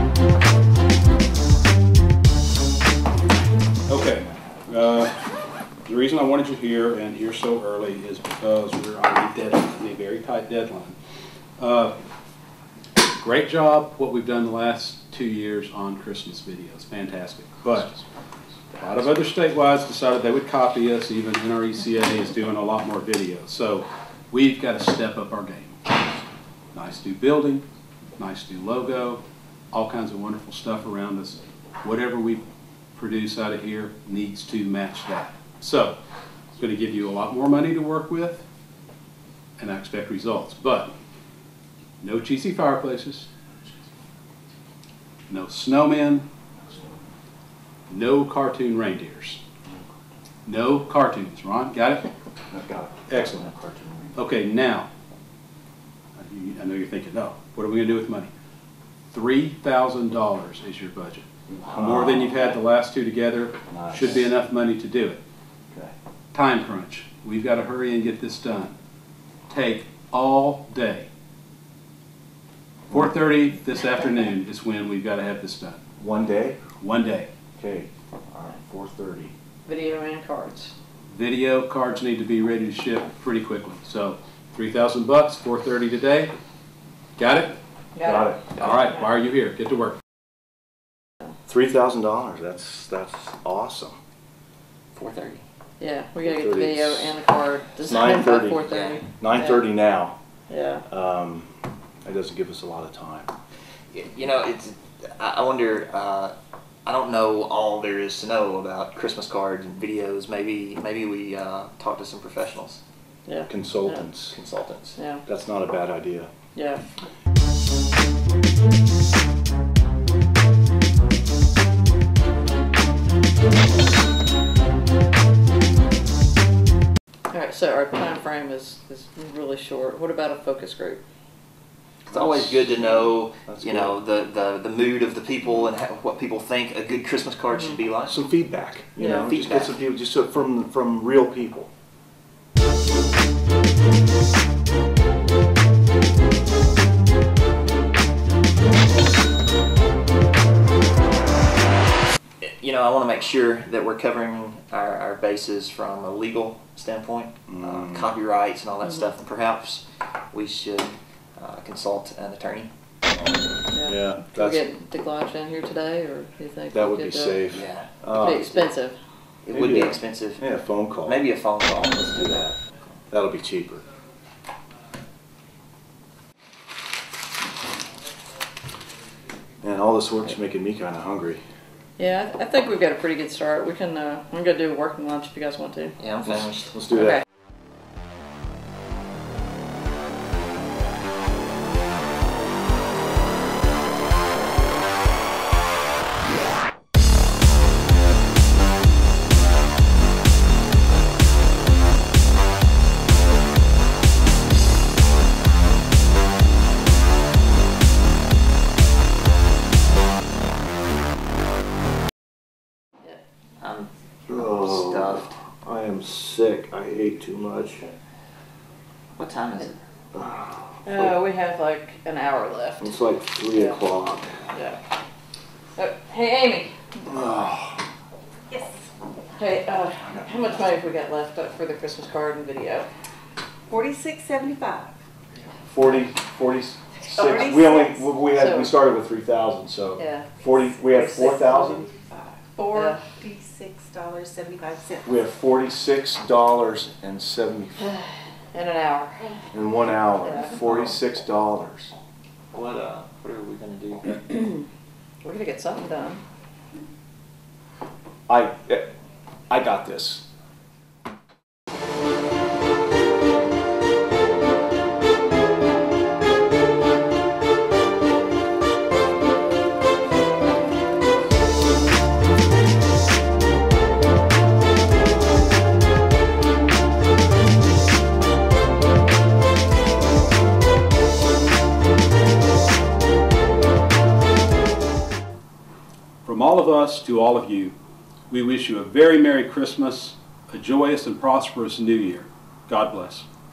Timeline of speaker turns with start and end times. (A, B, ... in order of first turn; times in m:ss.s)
0:03.9-0:05.2 A
0:05.9-0:11.0 A
0:11.6-0:12.0 A
0:13.0-0:17.9 A
0:18.8-0:25.8 A
0:26.7-0:27.6 A
0:28.2-0:29.2 A
0:29.7-0:32.4 A
0:33.0-0:36.0 A
0:36.6-0:38.4 A
0:39.6-0:40.9 A
0:42.0-0:43.3 A
0:45.3-0:46.3 A
0:46.7-0:47.0 B
0:47.9-0:49.4 A
0:50.5-0:52.1 A
0:52.5-0:54.2 B
0:53.1-0:53.5 A
0:54.2-0:54.9 A
0:56.2-0:58.3 A
0:59.1-1:05.2 A
1:01.5-1:02.5 B
1:03.7-1:04.3 B
1:06.3-1:08.7 A
1:09.5-1:11.1 A
1:12.9-1:15.8 A
1:16.0-1:16.6 B
1:16.8-1:17.3 A
1:17.6-1:19.3 B
1:19.6-1:20.8 C
1:21.1-1:26.3 A
1:27.2-1:27.6 A
1:28.0-1:28.8 C
1:28.0-1:28.6 B
1:28.5-1:30.0 A
1:31.5-1:34.0 B
1:34.9-1:35.4 D
1:35.8-1:39.7 C
1:36.2-1:37.2 B
1:37.8-1:38.6 B
1:38.7-1:39.0 D
1:39.2-1:40.2 B
1:40.5-1:40.8 C
1:40.9-1:41.5 B
1:42.0-1:43.3 B
1:43.9-1:46.3 D
1:46.9-1:52.8 D
1:53.3-1:54.1 C
1:53.5-1:54.4 B
1:54.3-1:55.0 D
1:55.0-1:55.2 C
1:55.2-1:56.3 B
1:56.6-1:56.8 C
2:07.3-2:11.0 C
2:12.1-2:18.2 D
2:12.1-2:14.0 B
2:18.1-2:21.7 B
2:19.0-2:19.3 C
2:19.3-2:19.8 D
2:32.4-2:42.7 D
2:37.5-2:38.2 B
2:43.7-2:47.4 C
2:43.8-2:44.7 B
2:46.7-2:48.5 B
2:47.5-2:48.7 D
2:48.2-2:49.0 C
2:49.4-2:50.5 D
2:49.5-2:51.3 B
2:51.0-2:52.6 D
2:52.2-2:52.6 B
2:53.1-2:53.8 B
2:59.6-3:01.4 B
3:02.0-3:06.0 C
3:06.0-3:06.7 D
3:06.4-3:07.2 B
3:33.6-3:35.4 D
3:34.3-3:37.8 B
3:39.2-3:39.8 D
3:40.1-3:41.2 B
3:40.8-3:43.0 C
3:42.8-3:44.4 B
3:43.5-3:43.8 C
3:44.5-3:44.8 C
3:45.8-3:46.8 C
3:47.1-3:47.8 B
3:48.5-3:48.8 E
3:49.4-3:52.9 C
3:53.7-3:55.0 E
3:55.7-4:01.9 B
3:57.2-3:58.0 E
3:58.3-3:58.7 C
4:00.0-4:00.4 C
4:00.9-4:01.7 C
4:01.7-4:05.1 E
4:02.7-4:03.0 C
4:05.0-4:07.9 B
4:07.9-4:09.3 C
4:09.5-4:11.9 B
4:10.2-4:10.5 C
4:10.6-4:10.9 D
4:12.5-4:14.2 D
4:14.3-4:14.6 C
4:15.2-4:16.2 C
4:18.3-4:18.9 B
4:19.5-4:20.2 B
4:46.2-4:47.8 A
4:48.3-4:53.3 A